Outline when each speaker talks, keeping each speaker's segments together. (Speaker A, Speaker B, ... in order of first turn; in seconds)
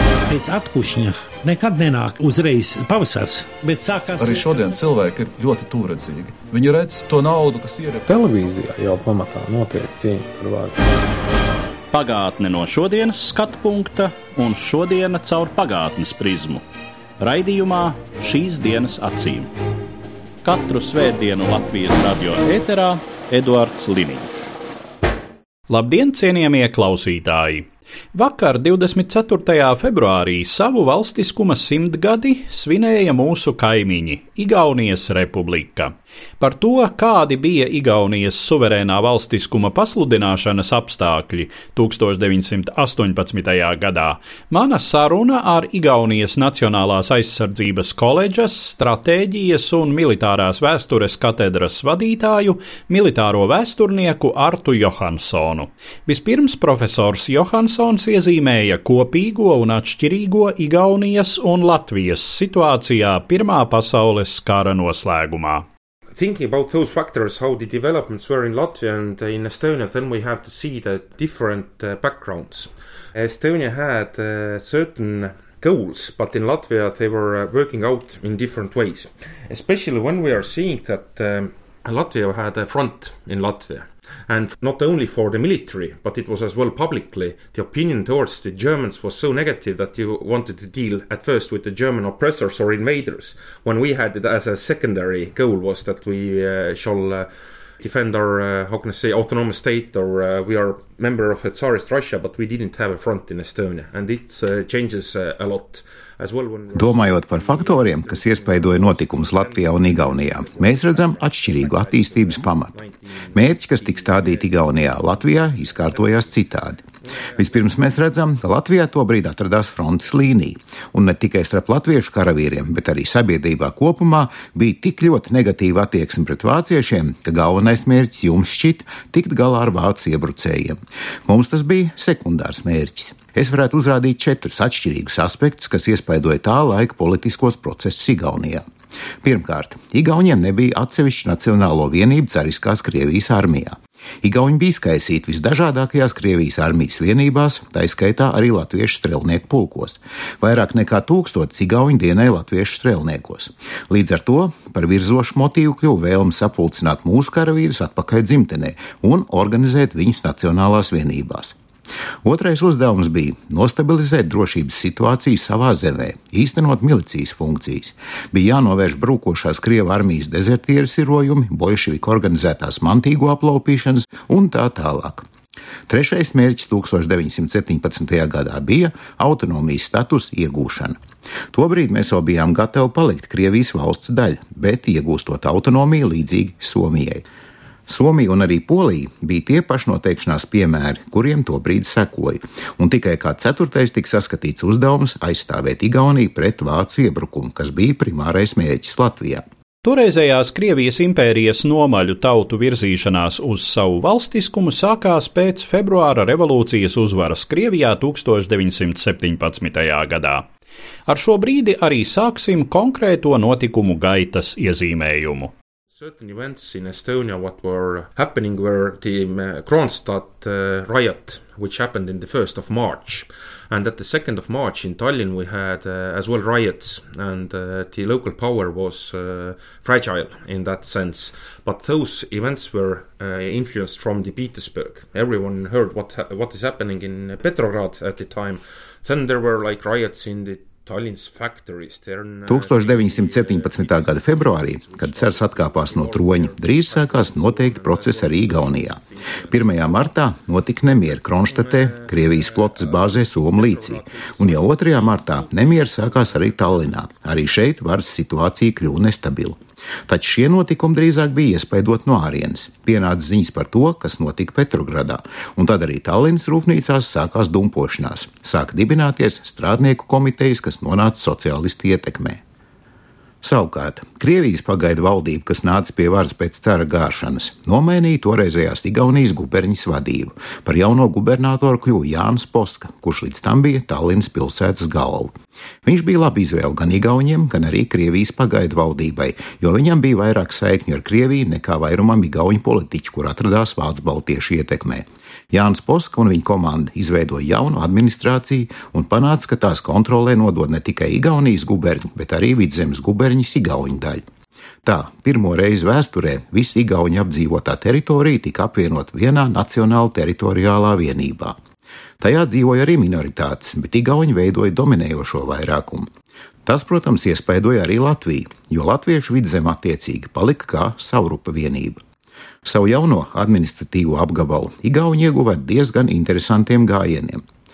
Speaker A: 0.3-4.5
Speaker B: 4.2-8.1
Speaker C: 8.1-10.8
Speaker D: 11.9-16.6, 17.2-19.5, 20.4-24.5, 25.7-65.7, 199.8-210.5, 211.1-215.5
Speaker E: 66.2-97.3, 97.8-116.4, 117.0-117.7, 216.0-250.1, 251.4-257.2
Speaker F: 106.7-112.8, 113.3-116.8, 117.3-138.6, 139.2-161.5, 162.2-175.2, 175.9-181.0, 181.5-187.2, 187.9-199.4, 242.5-272.4, 273.4-285.3, 285.8-304.2, 304.8-311.6, 312.2-316.1, 316.6-322.0, 322.6-327.4